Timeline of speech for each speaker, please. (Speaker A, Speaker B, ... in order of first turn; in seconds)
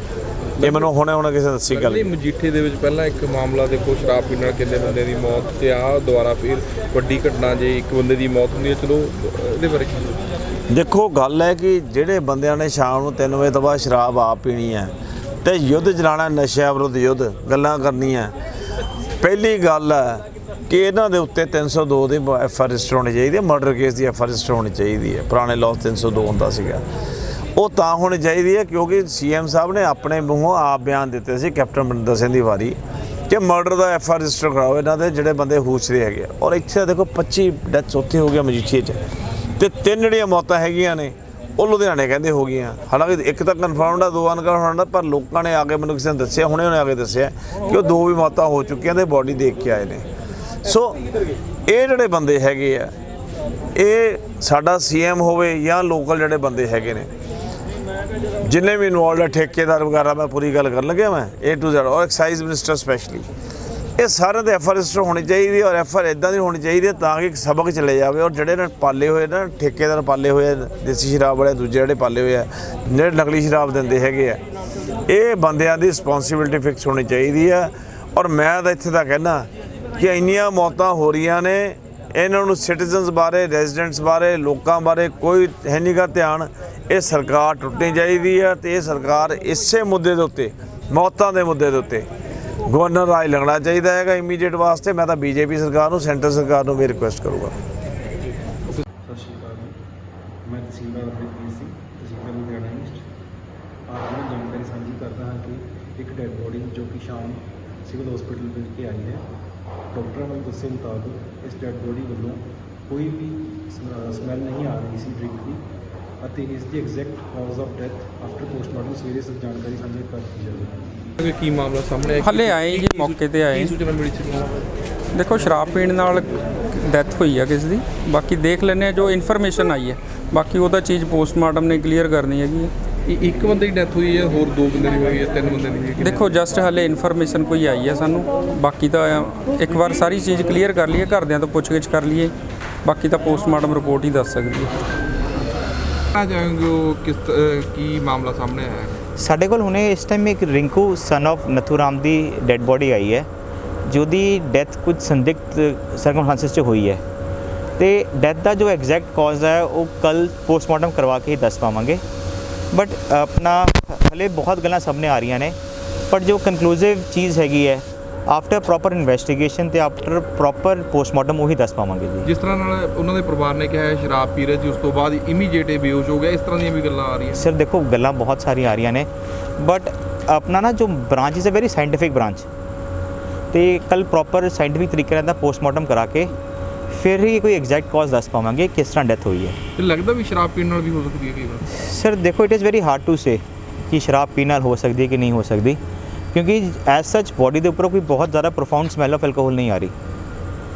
Speaker A: 0.6-0.9, 1.7-10.2, 121.2-124.5, 133.1-136.4, 146.1-148.9, 172.2-177.4, 189.8-191.6
Speaker B: 0.6-2.1, 10.7-14.9, 15.4-18.3, 19.2-26.8, 27.6-32.8, 33.3-39.0, 39.6-50.0, 50.6-51.0, 51.7-52.9, 53.8-57.1, 58.5-63.2, 64.0-74.4, 75.1-92.1, 92.7-97.5
Speaker C: 99.0-99.7, 100.5-103.0, 103.9-109.2, 109.9-115.6, 116.2-121.1
Speaker D: 122.2-123.8, 125.1-132.7, 136.0-142.3, 142.8-144.8
Speaker E: 149.2-153.3, 153.9-157.0, 157.8-162.0, 162.7-165.6, 166.1-172.3, 177.3-179.1, 179.6-182.4, 183.5-186.3, 186.9-189.6, 191.7-195.8, 196.3-199.9